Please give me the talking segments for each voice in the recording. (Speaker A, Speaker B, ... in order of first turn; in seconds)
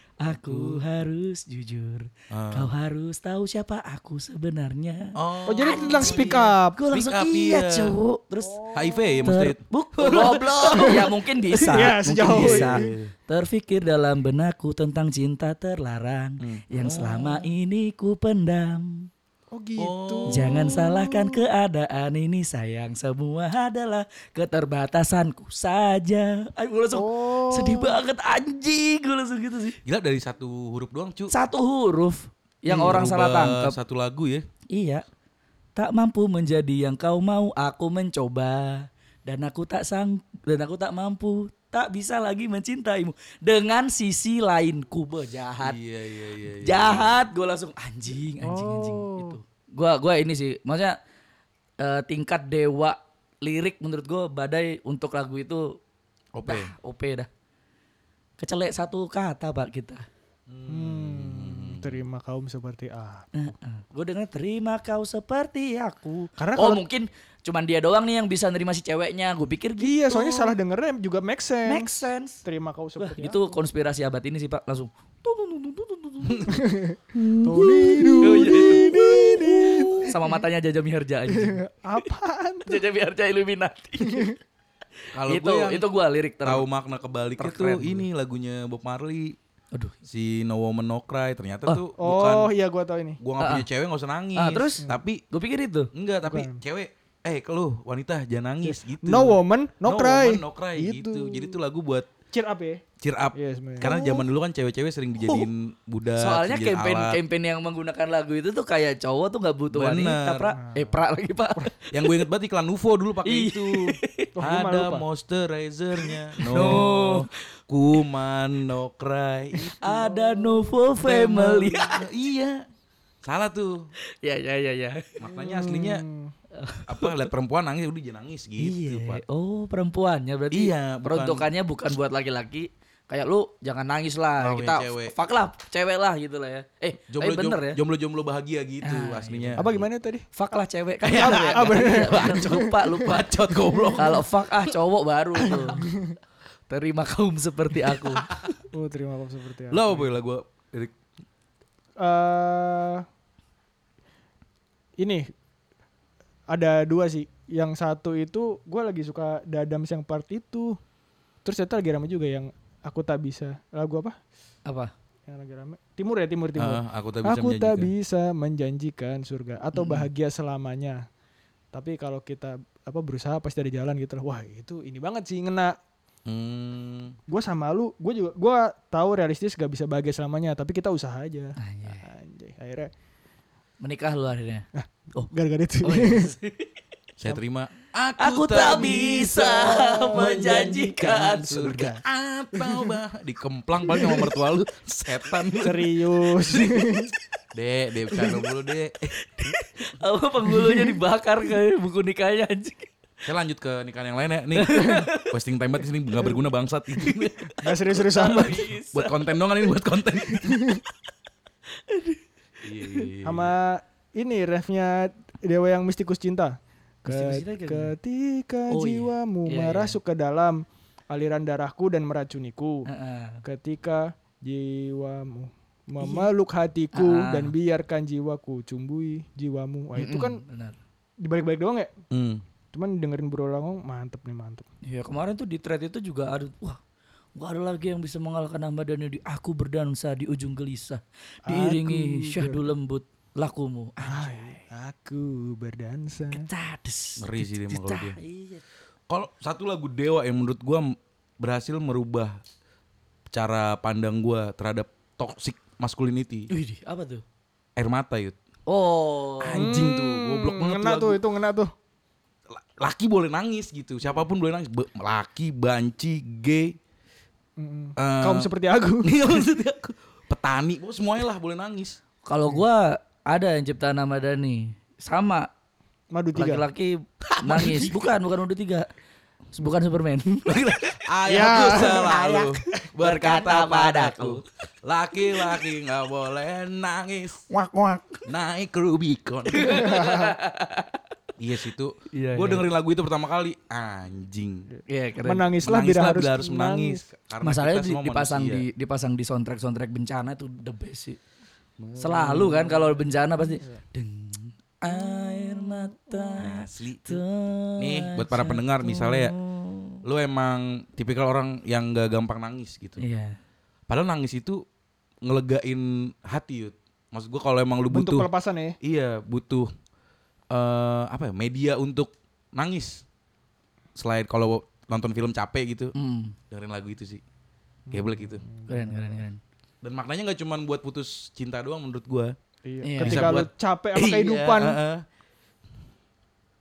Speaker A: 0.2-5.2, 5.7-8.7, 9.2-19.1, 20.3-29.8, 31.3-33.8, 34.7-35.0, 35.8-45.8, 46.6-51.0, 51.8-55.8, 56.5-57.3, 58.4-60.0, 63.3-70.5, 71.7-72.4, 73.0-76.6, 78.2-82.1, 82.7-84.4, 85.3-86.7, 87.4-88.1, 93.4-93.7, 94.4-95.9, 103.8-104.2, 105.2-105.5, 106.2-112.2, 113.2-114.3, 116.4-117.3, 119.8-122.0, 124.2-125.2, 126.5-127.3, 128.6-137.8, 138.8-139.6, 140.3-143.4, 144.0-145.9, 146.7-148.3, 164.7-164.9, 169.7-170.1, 181.6-182.1, 183.8-185.3, 185.8-186.7, 188.2-191.6, 199.2-202.9, 204.6-205.3, 208.1-209.2, 211.9-212.2, 212.8-213.1, 217.1-217.9, 218.7-220.0, 222.9-223.4, 226.0-226.3, 226.9-227.5, 230.0-230.8, 234.8-236.8, 237.4-244.6, 246.3-248.6, 256.5-257.2, 258.7-259.8, 272.3-275.5, 276.4-278.9, 279.5-280.7, 281.8-282.5, 283.0-284.4, 289.5-291.0, 292.1-292.7, 294.9-295.5, 297.4-301.2, 302.0-310.0, 313.0-313.4, 326.0-326.4, 328.7-329.4, 332.8-333.3
Speaker B: 0.3-0.8, 2.3-2.7, 5.2-8.0, 8.7-11.0, 12.2-13.1, 16.4-17.5, 19.8-21.3, 29.9-31.3, 32.7-34.5, 45.6-47.1, 56.3-56.7, 60.5-62.0, 76.2-76.6, 77.2-80.1, 85.1-85.8, 86.4-89.4, 90.0-92.5, 93.2-95.2, 95.9-102.1, 103.0-107.2, 109.7-110.5, 111.9-119.8, 121.0-122.6, 123.2-123.9, 125.2-126.0, 126.9-129.2, 130.5-131.5, 134.4-135.2, 137.1-139.9, 141.0-144.7, 148.1-148.5, 149.7-150.9, 166.6-167.9, 176.3-177.2, 187.2-199.2, 203.2-210.6, 212.6-213.5, 232.1-232.4, 247.2-248.2, 249.1-252.4, 253.3-256.5, 257.8-258.4, 259.4-261.2, 262.5-266.8, 268.0-268.5, 269.0-272.0, 277.2-278.1, 280.5-287.4, 288.3-290.0, 291.4-294.7, 295.6-298.6, 301.8-302.8, 306.3-307.2, 307.8-309.4, 310.1-313.0, 313.9-314.6, 315.2-318.3, 318.8-319.7, 320.5-323.0, 324.0-325.9, 326.5-327.2, 327.9-328.4, 329.8-332.4, 333.0-335.1
Speaker C: 5.5-6.8, 8.4-9.3, 10.7-11.1, 11.6-12.9, 19.5-20.7, 26.9-28.0, 48.4-49.4, 60.7-63.3, 66.4-66.8, 69.8-73.6, 76.5-80.1, 81.3-82.8, 84.0-84.3, 92.0-93.2, 96.3-96.6, 98.6-101.6, 102.3-102.8, 103.3-104.0, 110.6-110.9, 114.4-115.0, 116.6-116.8, 119.7-121.7, 125.3-126.3, 139.6-140.3, 141.1-143.1, 145.5-146.2, 148.7-150.1, 152.0-153.1, 155.0-155.3, 156.5-160.8, 161.4-164.2, 165.3-171.1, 171.7-175.8, 177.3-182.9, 184.8-186.3, 189.5-192.0, 192.5-193.0, 193.9-194.3, 195.6-197.1, 207.6-208.7, 210.4-210.8, 213.2-222.9, 223.4-230.4, 231.2-231.9, 232.7-234.7, 241.5-242.7, 244.0-246.5, 259.6-261.7, 267.6-269.1, 276.1-276.6, 281.3-282.5, 287.5-288.2, 289.7-290.3, 294.8-297.0, 305.1-305.8, 317.9-318.8, 327.9-329.2, 332.6-334.8